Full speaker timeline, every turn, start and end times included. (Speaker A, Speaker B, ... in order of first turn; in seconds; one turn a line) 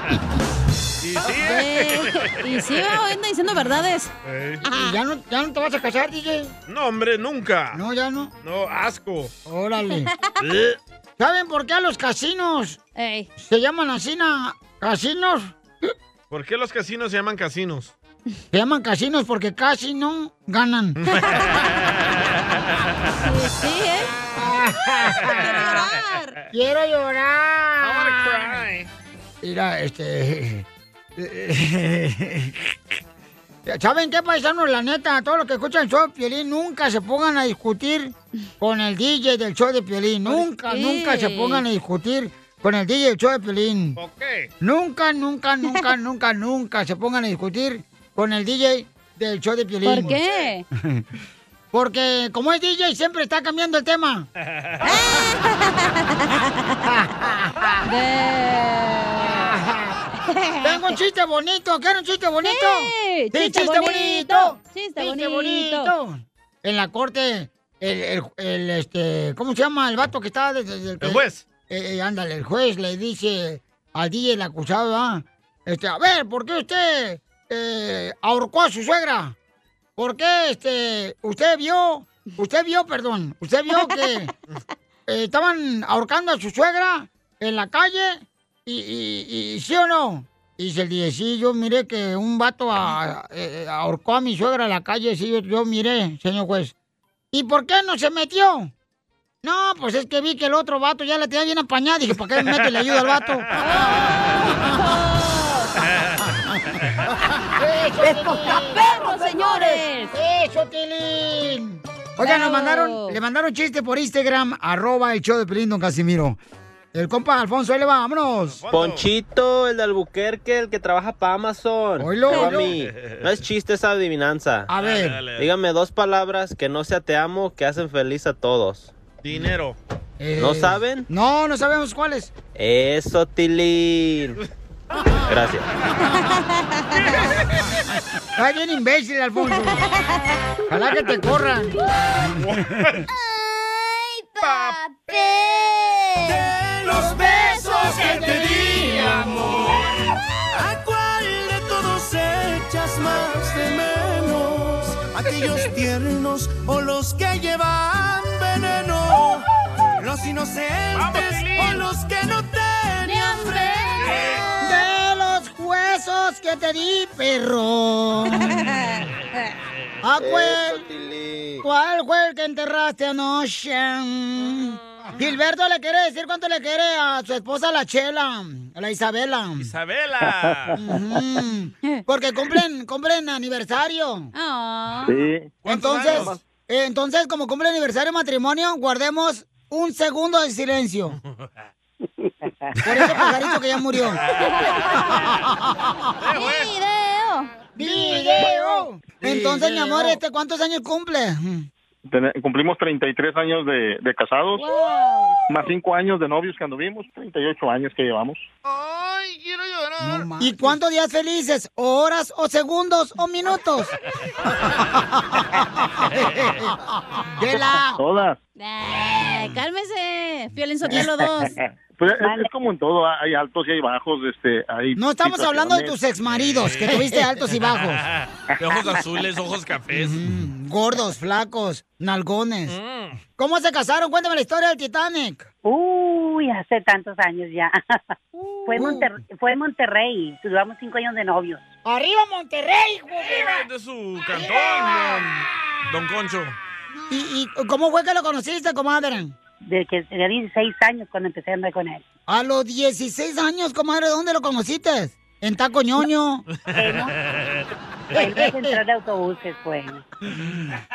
Speaker A: 1.0-2.8
Speaker B: 1.4-4.1
Speaker A: 4.2-4.6
Speaker B: 4.6-4.9
Speaker C: 4.6-6.5
Speaker A: 6.7-7.8
Speaker C: 7.7-8.3
Speaker A: 8.4-9.3
Speaker C: 9.4-10.1
Speaker A: 10.4-10.8
Speaker C: 11.2-12.8
Speaker B: 12.9-13.3
Speaker C: 13.4-15.9
Speaker A: 16.3-17.9
Speaker C: 18.5-21.0
Speaker A: 21.0-21.5
Speaker B: 21.2-21.6
Speaker B: 23.2-24.1
Speaker C: 24.4-25.6
Speaker B: 25.2-26.4
Speaker C: 26.5-28.6
Speaker A: 27.8-28.9
Speaker C: 29.4-30.6
Speaker C: 31.2-32.8
Speaker C: 33.6-44.0
Speaker B: 40.3-41.6
Speaker A: 44.0-44.5
Speaker C: 44.6-50.2
Speaker B: 49.8-50.6
Speaker C: 50.7-51.0
Speaker C: 51.7-54.3
Speaker A: 54.5-54.8
Speaker B: 54.8-56.8
Speaker C: 56.8-57.8
Speaker B: 57.8-59.5
Speaker C: 59.3-60.0
Speaker B: 60.2-60.9
Speaker C: 60.6-79.3
Speaker B: 62.4-65.9
Speaker A: 71.0-71.5
Speaker C: 80.0-84.3
Speaker B: 83.7-84.0
Speaker C: 85.1-96.7
Speaker C: 97.3-98.7
Speaker C: 99.4-103.5
Speaker B: 103.5-105.7
Speaker C: 107.5-116.4
Speaker B: 108.0-110.1
Speaker B: 112.2-113.2
Speaker C: 116.9-118.6
Speaker A: 118.6-119.1
Speaker D: 118.7-124.7
Speaker C: 122.0-122.7
Speaker B: 122.3-122.5
Speaker A: 122.6-123.3
Speaker C: 124.7-125.2
Speaker A: 124.7-125.5
Speaker D: 125.4-128.9
Speaker A: 129.2-129.8
Speaker C: 130.2-132.3
Speaker D: 130.4-131.1
Speaker D: 132.5-134.4
Speaker D: 135.3-135.7
Speaker B: 136.1-137.3
Speaker C: 138.4-139.9
Speaker C: 140.7-142.6
Speaker A: 142.4-143.0
Speaker A: 144.4-144.7
Speaker E: 146.2-149.7
Speaker C: 147.5-149.4
Speaker E: 150.5-159.4
Speaker E: 160.0-164.3
Speaker A: 160.9-161.8
Speaker B: 163.0-164.3
Speaker A: 164.1-164.4
Speaker C: 164.6-168.6
Speaker B: 168.3-169.1
Speaker C: 170.0-170.9
Speaker C: 171.6-179.7
Speaker A: 179.6-180.8
Speaker C: 180.7-184.3
Speaker B: 184.3-185.2
Speaker F: 185.1-185.6
Speaker A: 185.6-186.4
Speaker C: 185.7-191.2
Speaker G: 192.2-192.5
Speaker C: 192.8-194.2
Speaker B: 194.3-195.2
Speaker A: 196.2-196.7
Speaker B: 196.3-198.8
Speaker C: 197.8-201.7
Speaker F: 202.1-204.7
Speaker B: 204.6-205.3
Speaker F: 205.5-208.4
Speaker A: 208.6-210.7
Speaker C: 210.0-213.9
Speaker C: 215.6-216.8
Speaker C: 217.3-218.0
Speaker F: 217.9-218.4
Speaker B: 218.6-221.5
Speaker F: 222.0-225.9
Speaker G: 222.2-222.5
Speaker C: 224.9-228.0
Speaker A: 226.3-227.2
Speaker A: 228.1-230.3
Speaker C: 229.9-232.8
Speaker A: 232.7-233.2
Speaker C: 233.4-235.5
Speaker G: 235.6-238.0
Speaker C: 238.3-239.1
Speaker G: 238.7-241.6
Speaker C: 241.8-243.7
Speaker A: 243.2-245.3
Speaker C: 244.3-245.3
Speaker A: 245.8-246.6
Speaker C: 247.1-249.3
Speaker G: 249.6-252.0
Speaker C: 252.3-256.4
Speaker G: 256.7-257.1
Speaker A: 256.7-257.6
Speaker G: 258.1-260.0
Speaker C: 258.1-258.8